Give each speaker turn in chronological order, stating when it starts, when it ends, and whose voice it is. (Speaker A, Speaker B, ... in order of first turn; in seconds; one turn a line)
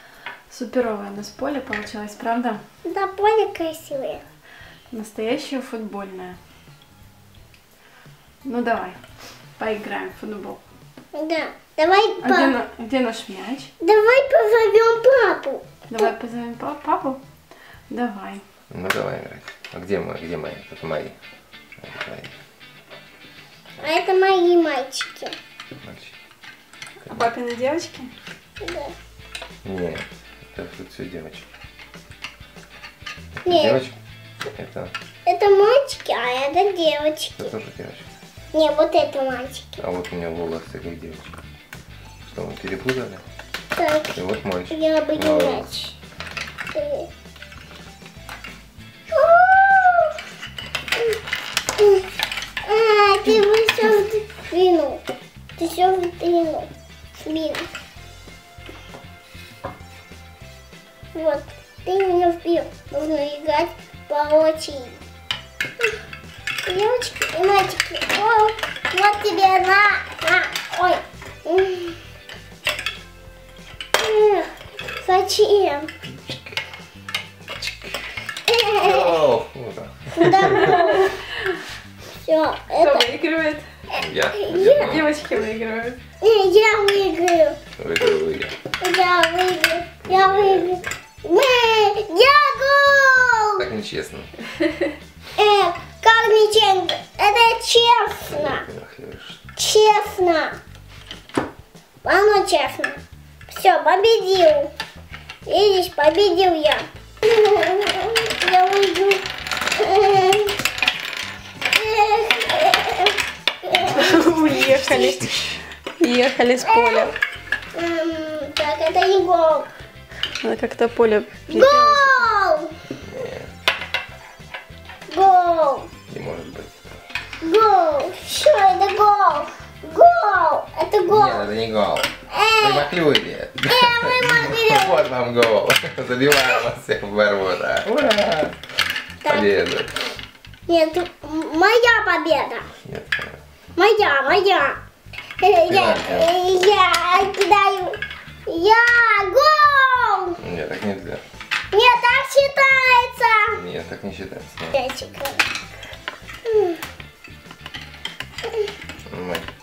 Speaker A: 0.5-2.6
Speaker B: 2.9-4.2
Speaker A: 4.9-6.4
Speaker A: 8.4-9.0
Speaker A: 9.6-10.6
Speaker B: 11.1-12.6
Speaker A: 12.2-13.7
Speaker B: 13.8-16.1
Speaker A: 15.9-17.2
Speaker A: 17.9-18.4
Speaker C: 18.7-21.2
Speaker C: 21.8-22.3
Speaker B: 23.8-25.4
Speaker C: 25.8-26.2
Speaker A: 27.0-28.1
Speaker B: 28.6-28.9
Speaker C: 29.6-31.5
Speaker C: 33.4-34.0
Speaker B: 33.5-33.9
Speaker C: 34.5-34.9
Speaker B: 35.3-37.5
Speaker C: 37.4-38.1
Speaker B: 38.5-39.8
Speaker C: 39.8-41.4
Speaker C: 42.2-43.2
Speaker B: 43.7-45.9
Speaker C: 44.1-45.8
Speaker B: 46.7-47.1
Speaker B: 49.1-50.2
Speaker B: 51.8-52.0
Speaker B: 52.6-55.0
Speaker B: 55.6-57.7
Speaker B: 61.1-65.0
Speaker B: 66.7-72.0
Speaker B: 74.0-75.9
Speaker C: 76.2-76.6
Speaker C: 77.6-78.0
Speaker B: 78.5-79.2
Speaker C: 78.8-80.7
Speaker B: 80.1-81.2
Speaker B: 82.1-83.1
Speaker A: 82.8-83.7
Speaker B: 83.9-85.0
Speaker C: 83.9-85.2
Speaker A: 84.8-86.0
Speaker B: 86.2-88.2
Speaker C: 87.8-88.6
Speaker B: 88.7-93.7
Speaker C: 90.1-90.8
Speaker C: 93.6-94.3
Speaker B: 95.4-98.7
Speaker C: 98.3-99.4
Speaker B: 99.6-100.6
Speaker B: 102.0-104.7
Speaker B: 105.5-110.6
Speaker B: 111.7-115.2
Speaker A: 113.8-117.1
Speaker B: 116.6-117.1
Speaker B: 117.7-119.7
Speaker A: 120.4-122.3
Speaker B: 121.5-122.9
Speaker C: 123.0-123.5
Speaker B: 125.1-125.9
Speaker C: 126.1-127.0
Speaker B: 127.4-131.5
Speaker C: 131.1-138.7
Speaker B: 132.3-132.9
Speaker B: 133.7-135.1
Speaker B: 139.2-139.5
Speaker C: 139.2-140.1
Speaker B: 140.7-142.7
Speaker C: 142.8-143.4
Speaker B: 143.8-144.8
Speaker B: 145.4-150.4
Speaker C: 145.7-146.3
Speaker C: 150.4-151.2
Speaker B: 151.7-153.6
Speaker C: 153.6-154.8
Speaker B: 154.7-155.4
Speaker B: 156.5-156.8
Speaker C: 159.1-159.5